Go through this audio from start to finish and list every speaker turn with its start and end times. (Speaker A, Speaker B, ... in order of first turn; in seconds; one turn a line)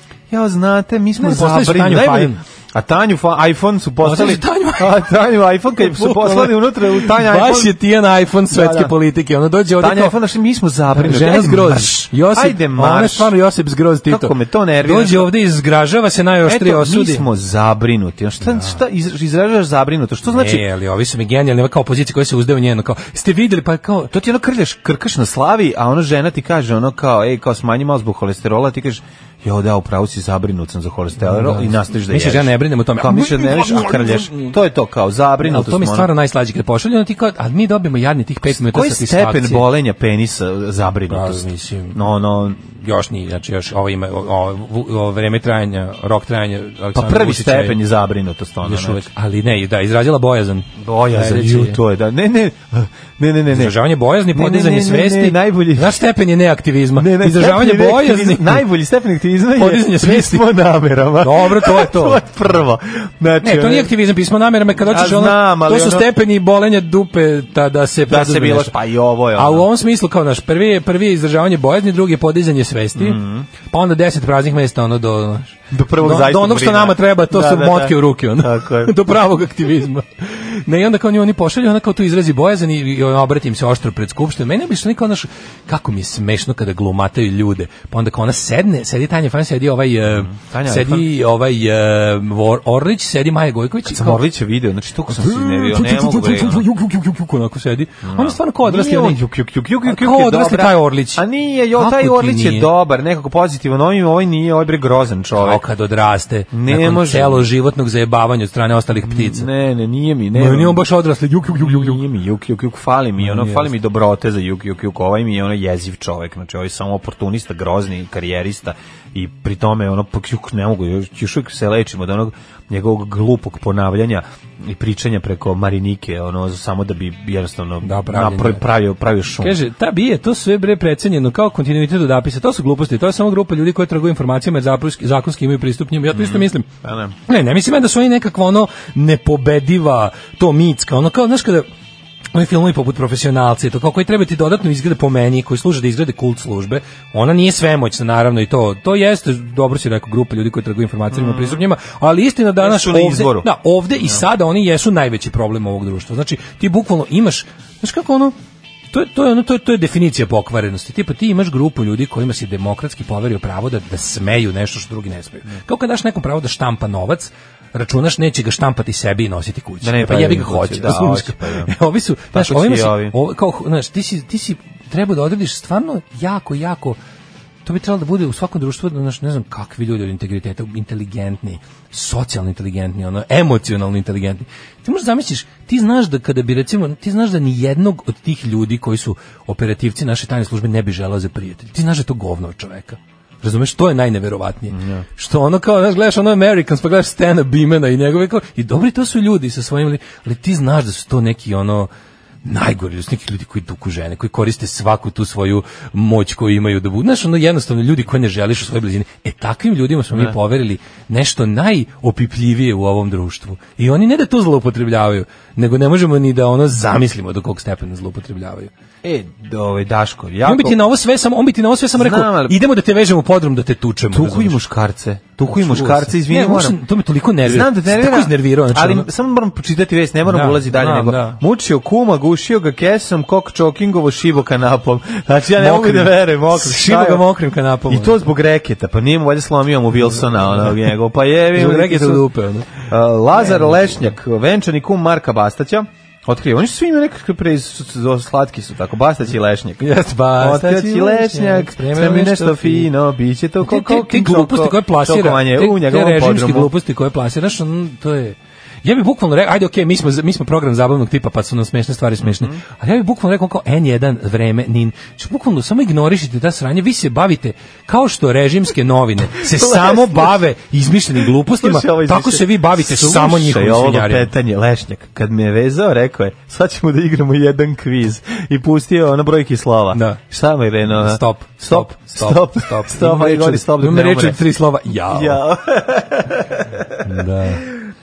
Speaker A: 0.3-7.7
Speaker B: 1.2-2.4
Speaker B: 4.0-5.1
Speaker B: 5.8-10.2
Speaker A: 8.5-8.9
Speaker A: 9.8-13.3
Speaker B: 10.9-17.2
Speaker A: 14.1-15.3
Speaker A: 16.4-20.6
Speaker B: 18.4-18.8
Speaker B: 20.3-24.1
Speaker A: 24.1-36.1
Speaker B: 31.2-34.5
Speaker B: 35.4-39.6
Speaker A: 38.5-42.6
Speaker B: 41.1-42.0
Speaker B: 42.6-47.8
Speaker A: 46.9-49.0
Speaker B: 48.6-51.8
Speaker A: 50.8-53.8
Speaker B: 53.5-58.6
Speaker A: 54.3-56.0
Speaker A: 57.0-63.9
Speaker B: 59.5-60.5
Speaker B: 61.2-62.2
Speaker B: 63.4-68.7
Speaker A: 64.8-66.1
Speaker A: 68.1-69.7
Speaker B: 69.3-94.2
Speaker A: 72.9-73.5
Speaker A: 75.7-78.9
Speaker A: 90.1-91.1
Speaker A: 93.8-96.7
Speaker B: 95.1-99.2
Speaker A: 98.0-105.6
Speaker B: 99.8-102.7
Speaker B: 105.4-109.5
Speaker A: 106.5-107.5
Speaker A: 109.0-110.8
Speaker B: 110.3-112.0
Speaker A: 111.5-129.6
Speaker B: 113.2-113.7
Speaker B: 127.8-128.6
Speaker B: 129.4-136.7
Speaker A: 136.1-137.1
Speaker B: 137.3-141.7
Speaker B: 142.3-158.3
Speaker A: 151.1-151.6
Speaker A: 152.6-153.5
Speaker B: 158.9-177.0
Speaker A: 169.8-171.7
Speaker A: 172.3-173.1
Speaker B: 177.6-201.9
Speaker A: 194.7-195.1
Speaker B: 202.4-218.7
Speaker A: 219.0-220.8
Speaker B: 220.4-224.6
Speaker A: 221.9-222.6
Speaker A: 224.1-226.8
Speaker B: 225.4-229.1
Speaker A: 227.4-237.2
Speaker B: 230.3-231.4
Speaker B: 235.6-238.2
Speaker A: 237.9-242.3
Speaker B: 241.5-244.0
Speaker A: 242.8-256.7
Speaker B: 249.8-252.9
Speaker B: 253.6-274.3
Speaker A: 262.2-262.6
Speaker A: 269.4-270.4
Speaker A: 271.3-284.5
Speaker B: 279.9-280.2
Speaker B: 280.9-285.4
Speaker A: 285.1-287.1
Speaker B: 287.0-287.7